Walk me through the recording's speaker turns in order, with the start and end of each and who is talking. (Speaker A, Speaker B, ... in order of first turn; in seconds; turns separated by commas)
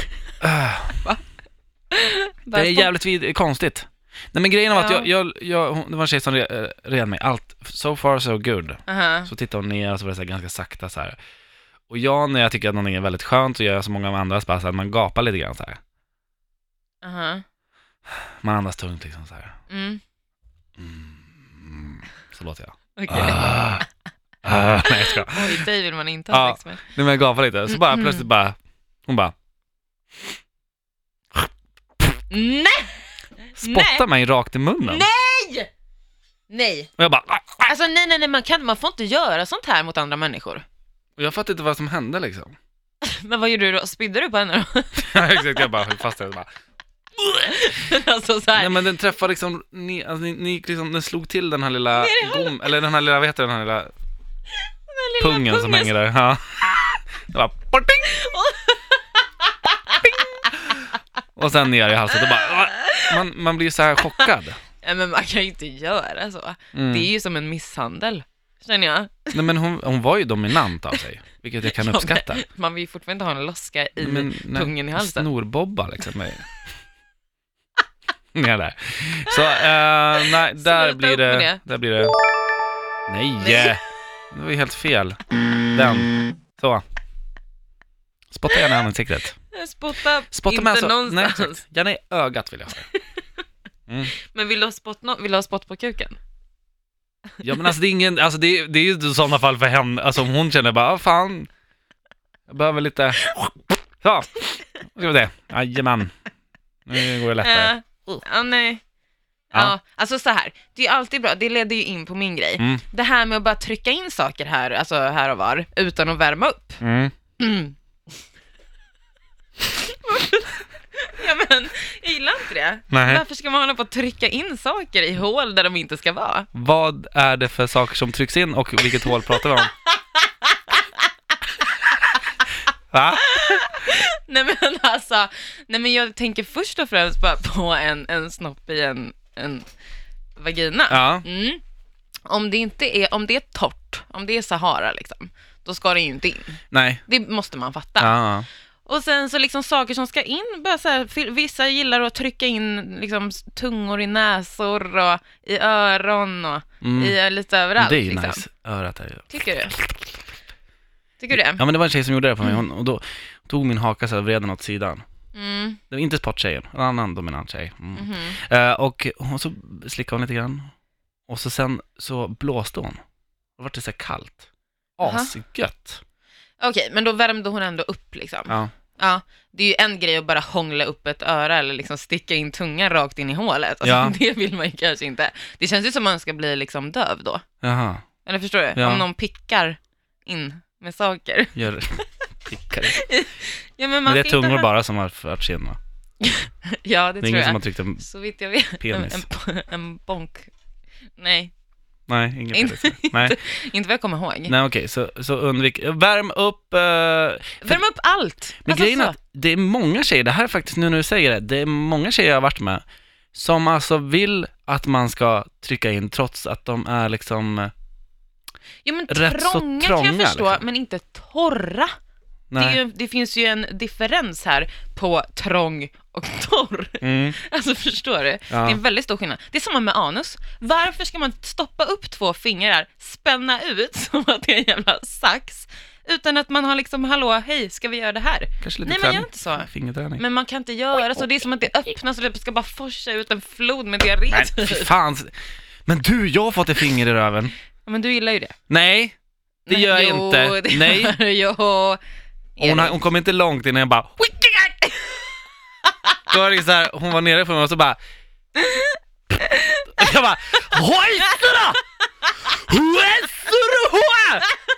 Speaker A: 0.4-1.1, Speaker B: 1.9-2.9, Speaker A: 2.5-11.2, Speaker B: 4.7-5.1, Speaker B: 8.9-9.3, Speaker A: 11.9-15.8, Speaker B: 17.0-17.4, Speaker A: 18.4-19.6, Speaker B: 19.7-20.0, Speaker A: 20.8-23.9, Speaker B: 23.0-23.9, Speaker A: 24.4-25.6, Speaker B: 24.8-26.8, Speaker A: 26.3-29.4, Speaker B: 27.7-28.3, Speaker B: 32.3-33.0, Speaker A: 33.6-35.1, Speaker B: 33.6-34.1, Speaker B: 34.8-35.7, Speaker B: 36.5-36.9, Speaker A: 37.0-37.7, Speaker B: 37.6-40.6, Speaker A: 41.2-42.6, Speaker B: 43.0-45.7, Speaker A: 45.0-46.5, Speaker B: 47.2-48.9, Speaker A: 48.6-53.9, Speaker B: 51.9-52.6, Speaker B: 54.9-56.0, Speaker A: 55.2-56.7, Speaker A: 57.3-58.1, Speaker B: 58.0-60.7, Speaker A: 60.0-60.7, Speaker A: 61.4-64.6, Speaker B: 62.1-63.2, Speaker B: 64.8-69.5, Speaker A: 66.7-67.1, Speaker A: 69.3-72.5, Speaker B: 71.6-75.3, Speaker A: 74.0-76.5, Speaker A: 78.3-82.2, Speaker B: 79.3-81.6, Speaker A: 83.1-83.8, Speaker B: 83.4-83.8, Speaker A: 84.3-85.2, Speaker A: 85.7-86.8, Speaker A: 88.3-89.4, Speaker B: 89.5-91.6, Speaker A: 90.3-92.9, Speaker B: 92.9-93.3, Speaker B: 94.2-96.2, Speaker A: 97.4-101.5, Speaker A: 102.5-103.4, Speaker A: 104.0-106.1, Speaker A: 106.9-107.7, Speaker B: 107.4-108.8, Speaker B: 109.5-116.8, Speaker A: 116.8-117.1, Speaker B: 117.4-117.7, Speaker B: 119.7-126.5, Speaker A: 122.9-123.2, Speaker A: 126.5-129.7, Speaker B: 129.0-131.1, Speaker B: 131.6-132.2, Speaker A: 132.9-133.6, Speaker B: 133.2-139.7, Speaker B: 140.4-141.6, Speaker A: 140.9-141.2, Speaker B: 142.3-148.2, Speaker A: 146.7-147.0, Speaker A: 148.0-148.5, Speaker B: 148.9-158.4, Speaker A: 156.8-157.2, Speaker A: 157.8-159.9, Speaker B: 159.3-159.8, Speaker B: 161.2-161.6, Speaker A: 161.3-165.0, Speaker B: 165.3-165.8, Speaker A: 165.9-170.7, Speaker B: 168.0-168.4, Speaker A: 171.3-173.0, Speaker A: 173.6-174.5, Speaker A: 175.0-176.0, Speaker B: 175.0-175.3, Speaker B: 176.6-187.4, Speaker A: 183.8-184.2, Speaker A: 187.6-188.1, Speaker B: 188.3-191.6, Speaker A: 188.8-189.1, Speaker A: 191.6-193.1, Speaker B: 192.9-194.7, Speaker A: 194.1-195.8, Speaker B: 196.2-200.5, Speaker A: 197.2-198.0, Speaker A: 198.8-199.3, Speaker B: 201.2-201.5, Speaker A: 202.1-203.4, Speaker B: 202.5-204.5, Speaker A: 204.5-207.8, Speaker B: 207.6-209.2, Speaker A: 208.7-217.7, Speaker B: 218.8-221.9, Speaker A: 219.1-220.6, Speaker A: 222.5-222.8, Speaker B: 222.6-244.9, Speaker A: 227.0-227.4, Speaker A: 228.5-228.8, Speaker A: 238.6-240.2, Speaker A: 244.3-245.3, Speaker A: 245.9-247.6, Speaker B: 247.9-248.6, Speaker A: 248.7-249.1, Speaker B: 249.7-252.0, Speaker A: 249.7-251.2, Speaker B: 252.6-253.0, Speaker A: 252.6-254.3, Speaker B: 254.3-255.3, Speaker B: 255.8-256.2, Speaker A: 256.3-258.0, Speaker B: 258.6-260.1, Speaker A: 260.0-261.8, Speaker B: 260.8-261.4, Speaker A: 262.4-264.5